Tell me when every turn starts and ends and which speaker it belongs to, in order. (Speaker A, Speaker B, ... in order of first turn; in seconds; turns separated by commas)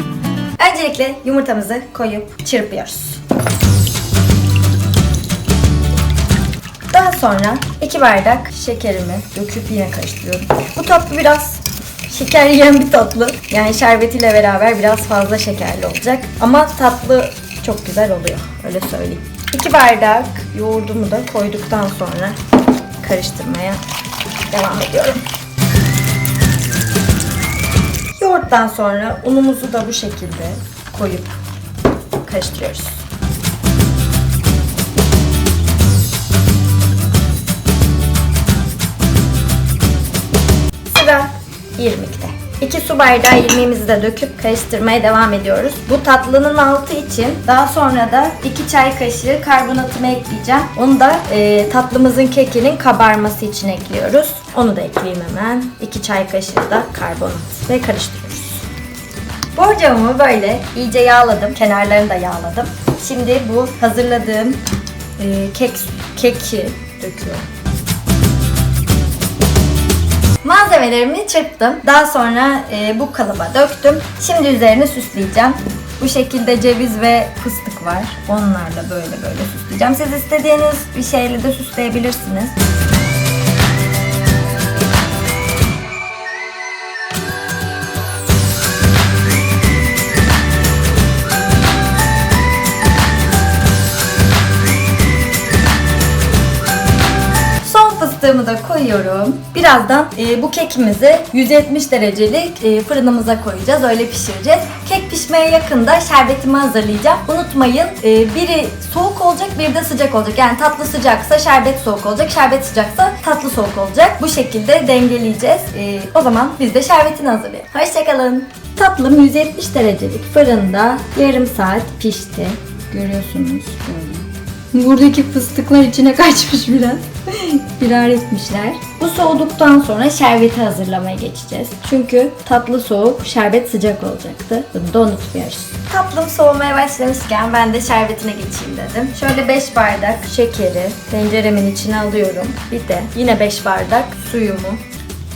Speaker A: 0.6-3.2, Speaker A: 6.9-22.4, Speaker A: 23.0-23.8, Speaker A: 24.5-25.2, Speaker A: 28.1-31.4, Speaker A: 32.2-33.0, Speaker A: 40.9-58.6, Speaker A: 59.5-64.6, Speaker A: 65.2-67.5, Speaker A: 70.4-82.5, Speaker A: 97.6-144.8